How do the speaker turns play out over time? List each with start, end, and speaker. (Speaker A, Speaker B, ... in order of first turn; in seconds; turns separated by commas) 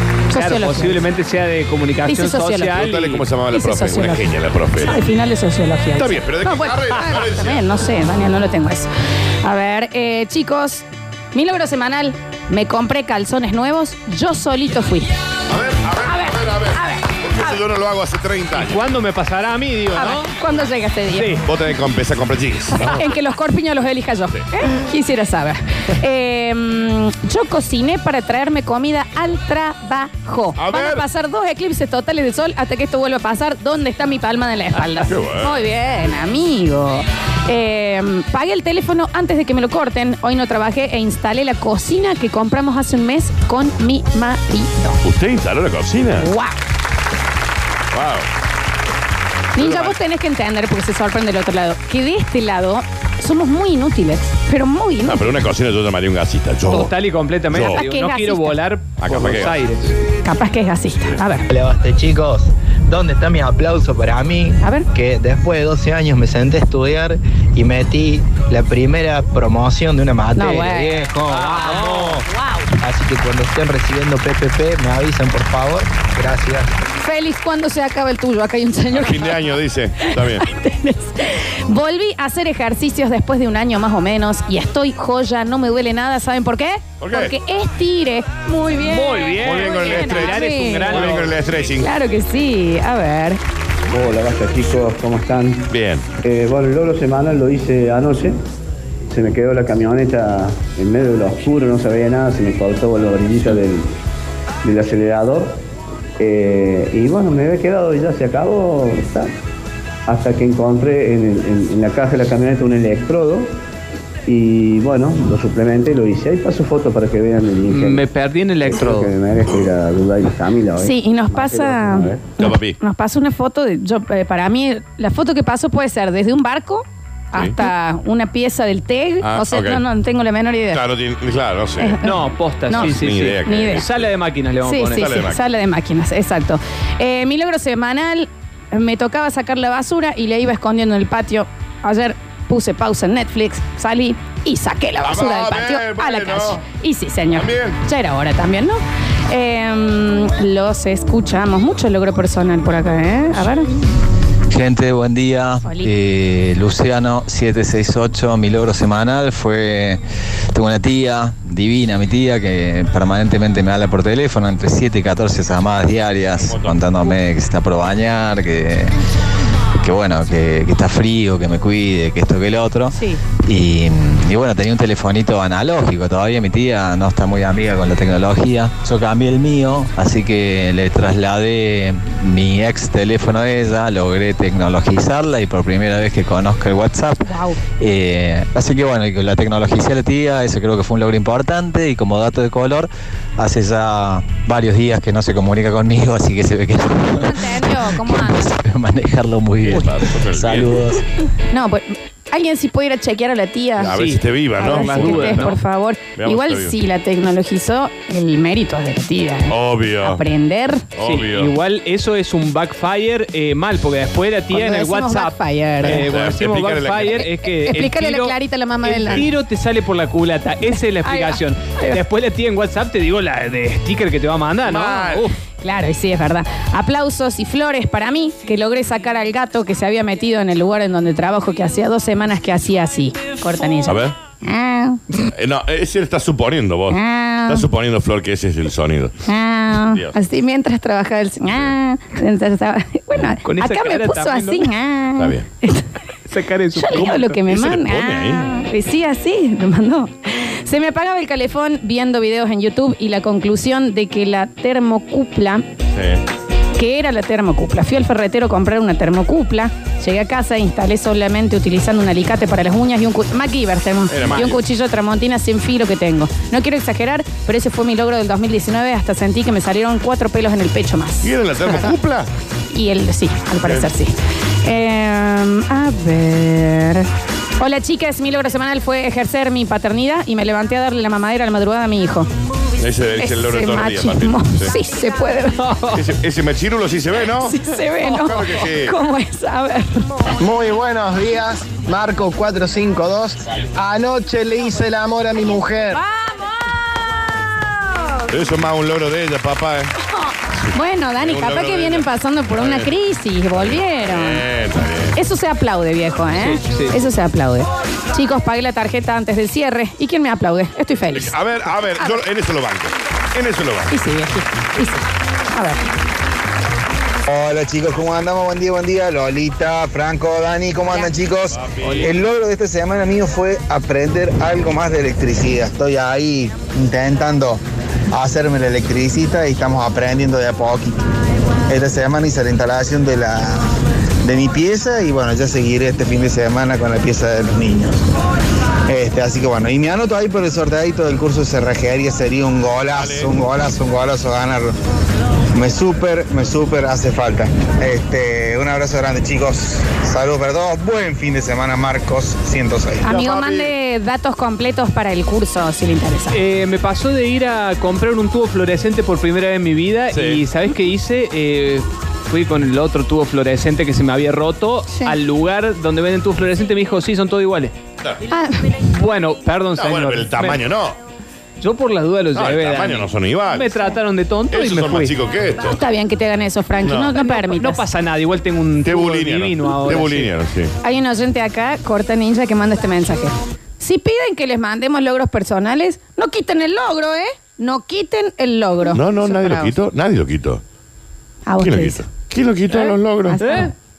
Speaker A: 0.3-1.0, Speaker B: 0.3-3.3, Speaker A: 2.1-2.8, Speaker C: 2.7-5.0, Speaker A: 3.5-8.9, Speaker C: 6.0-7.6, Speaker A: 9.4-15.1, Speaker C: 15.5-18.8, Speaker A: 16.1-17.6, Speaker B: 18.5-20.3, Speaker A: 20.0-21.4, Speaker B: 21.2-21.4, Speaker C: 21.4-23.1, Speaker A: 22.7-45.0, Speaker C: 30.6-31.1, Speaker C: 35.1-35.6, Speaker C: 45.0-46.3, Speaker A: 46.2-46.6, Speaker C: 47.9-48.3, Speaker A: 49.6-55.3, Speaker C: 49.6-50.0, Speaker C: 55.0-56.9, Speaker B: 56.7-59.9, Speaker C: 57.5-57.9, Speaker A: 57.6-58.6, Speaker C: 59.0-59.5, Speaker A: 60.3-61.5, Speaker D: 61.5-72.2, Speaker A: 64.6-64.9, Speaker A: 70.3-71.0, Speaker B: 71.2-72.2, Speaker A: 71.8-72.6, Speaker D: 72.8-76.7, Speaker A: 77.0-79.4, Speaker C: 78.9-80.5, Speaker A: 80.0-91.1, Speaker C: 87.0-87.3, Speaker B: 88.9-91.3, Speaker C: 89.4-91.9, Speaker A: 91.8-93.4, Speaker E: 93.9-95.7, Speaker C: 95.7-96.1, Speaker E: 96.2-98.4, Speaker E: 99.1-103.9, Speaker E: 104.6-105.6, Speaker E: 106.2-109.3, Speaker E: 110.1-113.5, Speaker E: 114.3-118.0, Speaker B: 117.7-119.1, Speaker E: 118.7-122.3, Speaker A: 120.8-130.8, Speaker C: 122.4-122.8, Speaker C: 129.2-129.8, Speaker C: 130.7-132.0, Speaker A: 131.8-132.2, Speaker B: 132.0-135.1, Speaker A: 132.7-133.8, Speaker C: 132.7-134.1, Speaker A: 134.7-153.7, Speaker C: 135.0-135.4, Speaker C: 145.0-146.6, Speaker C: 147.3-147.8, Speaker F: 154.5-160.0, Speaker A: 155.7-155.9, Speaker F: 160.5-168.9, Speaker C: 166.4-166.8, Speaker F: 169.8-201.0, Speaker A: 187.3-187.6, Speaker A: 197.2-198.5, Speaker C: 199.7-200.8, Speaker A: 201.5-204.0, Speaker C: 203.8-205.6, Speaker B: 203.9-205.5, Speaker A: 204.6-210.9, Speaker C: 206.2-206.8, Speaker C: 209.5-210.2, Speaker C: 211.0-211.5, Speaker B: 211.0-225.3, Speaker A: 214.5-216.0, Speaker C: 215.8-217.2, Speaker A: 217.2-219.3, Speaker C: 219.0-219.3, Speaker A: 221.0-222.0, Speaker C: 224.7-225.2, Speaker A: 225.6-235.0, Speaker C: 233.9-234.2, Speaker C: 235.3-239.2, Speaker A: 236.9-237.7, Speaker A: 239.3-245.8, Speaker C: 239.9-240.1, Speaker B: 243.4-244.7, Speaker C: 245.2-245.5, Speaker B: 246.3-247.3, Speaker A: 246.8-255.7, Speaker C: 247.0-248.5, Speaker C: 255.9-256.2, Speaker A: 256.8-271.9, Speaker C: 264.1-264.6, Speaker C: 271.2-272.3, Speaker A: 272.7-274.1, Speaker A: 274.6-277.1, Speaker A: 277.6-282.3, Speaker C: 282.8-284.7, Speaker A: 283.2-285.7, Speaker B: 285.6-286.0, Speaker C: 285.9-288.9, Speaker A: 287.4-290.0, Speaker A: 295.9-296.6, Speaker C: 298.3-299.9, Speaker A: 300.7-304.4, Speaker C: 301.2-302.9, Speaker C: 303.5-305.2, Speaker A: 305.1-311.4, Speaker B: 306.4-306.9, Speaker C: 311.1-313.9, Speaker A: 313.9-315.9, Speaker G: 317.3-327.6, Speaker C: 321.5-322.1, Speaker G: 328.1-331.0, Speaker G: 331.7-333.7, Speaker G: 334.2-338.0, Speaker G: 338.9-344.8, Speaker C: 342.9-343.3, Speaker G: 345.6-353.0, Speaker A: 353.0-356.4, Speaker C: 353.1-353.7, Speaker B: 356.3-367.8, Speaker C: 360.1-360.4, Speaker A: 368.3-368.7, Speaker B: 368.9-370.6, Speaker C: 369.8-371.0, Speaker B: 371.6-375.1, Speaker C: 372.4-373.7, Speaker C: 374.5-375.8, Speaker A: 375.6-377.8, Speaker C: 376.8-377.1, Speaker B: 377.2-380.3, Speaker C: 378.9-380.7, Speaker A: 380.8-389.7, Speaker C: 388.9-390.6, Speaker A: 391.5-392.0, Speaker C: 391.6-393.4, Speaker A: 392.7-393.7, Speaker B: 393.4-393.7